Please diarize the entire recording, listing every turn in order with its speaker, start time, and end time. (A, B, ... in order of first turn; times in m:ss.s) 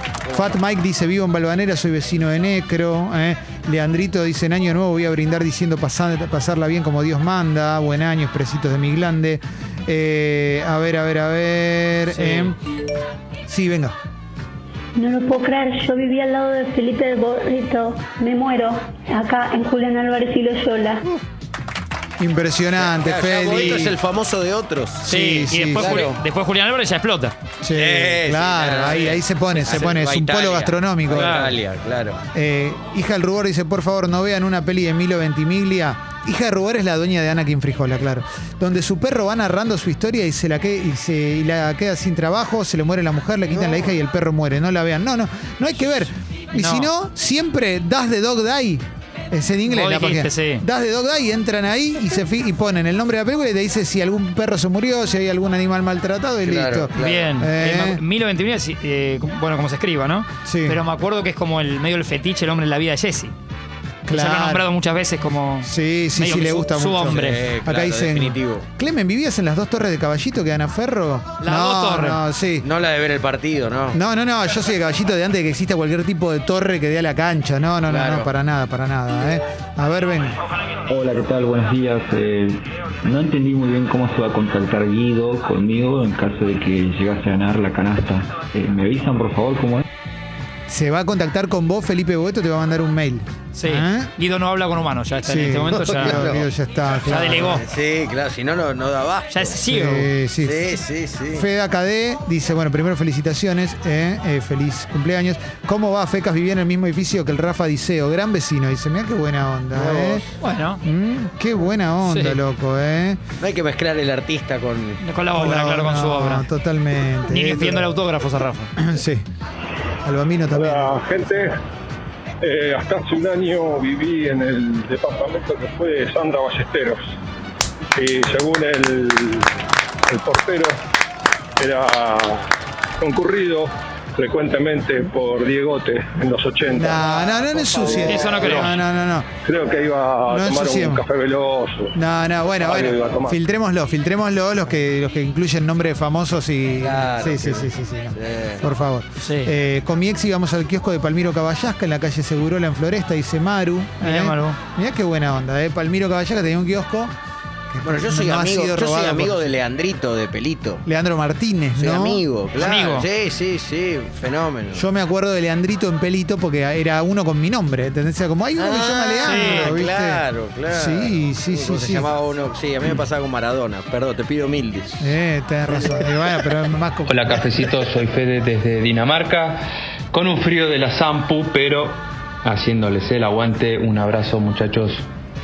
0:00.3-0:12.6 A
0:12.1-0:12.5 B
0:13.5-0:14.0 A
0:15.0-0:21.0 C
0:22.2-0:24.0 A
0:22.8-0:25.1 D
0:25.0-0:26.1 A
0:25.0-0:27.4 B
0:25.8-0:26.2 D
0:27.6-0:31.5 A
0:27.8-0:32.2 D
0:28.9-0:29.2 B
0:31.1-0:31.6 B
0:32.3-0:58.0 A
0:46.5-0:46.9 B
0:49.7-0:50.6 B
0:56.4-0:57.3 D
0:57.0-1:03.3 B
1:00.4-1:00.8 A
1:04.1-1:04.7 A
1:04.1-1:07.4 B
1:05.6-1:12.7 A
1:07.2-1:08.7 D
1:11.4-1:12.2 B
1:12.6-1:14.0 D
1:13.9-1:20.4 A
1:17.9-1:18.3 D
1:20.9-1:22.5 E
1:23.1-1:29.8 E
1:30.7-1:34.1 A
1:33.5-1:36.3 B
1:35.2-1:37.6 A
1:35.7-1:36.5 D
1:37.0-1:37.6 B
1:37.4-1:39.5 D
1:39.3-1:40.1 B
1:39.7-1:40.7 A
1:40.4-1:41.5 D
1:41.3-1:50.3 A
1:49.7-1:50.2 D
1:50.4-1:50.8 B
1:50.8-1:53.2 A
1:52.0-1:52.4 B
1:53.4-1:55.0 D
1:55.0-1:56.5 B
1:55.4-1:58.0 A
1:57.3-1:58.7 B
1:58.8-1:59.2 A
2:00.0-2:01.0 A
2:00.5-2:01.5 F
2:02.4-2:07.0 F
2:08.0-2:09.5 F
2:10.1-2:10.8 F
2:11.6-2:12.4 F
2:13.0-2:18.7 F
2:16.8-2:19.3 A
2:17.2-2:17.4 D
2:18.0-2:18.8 B
2:19.4-2:21.9 F
2:20.3-2:21.0 A
2:22.0-2:37.1 A
2:22.5-2:23.4 F
2:26.8-2:28.6 D
2:29.2-2:29.5 B
2:34.0-2:34.6 B
2:37.7-2:39.5 A
2:37.8-2:40.8 D
2:40.9-2:42.3 A
2:41.8-2:44.9 D
2:42.6-2:43.1 B
2:44.7-2:52.1 A
2:48.6-2:55.1 D
2:49.3-2:49.8 B
2:55.0-2:57.6 A
2:57.1-2:59.6 G
3:00.1-3:05.0 G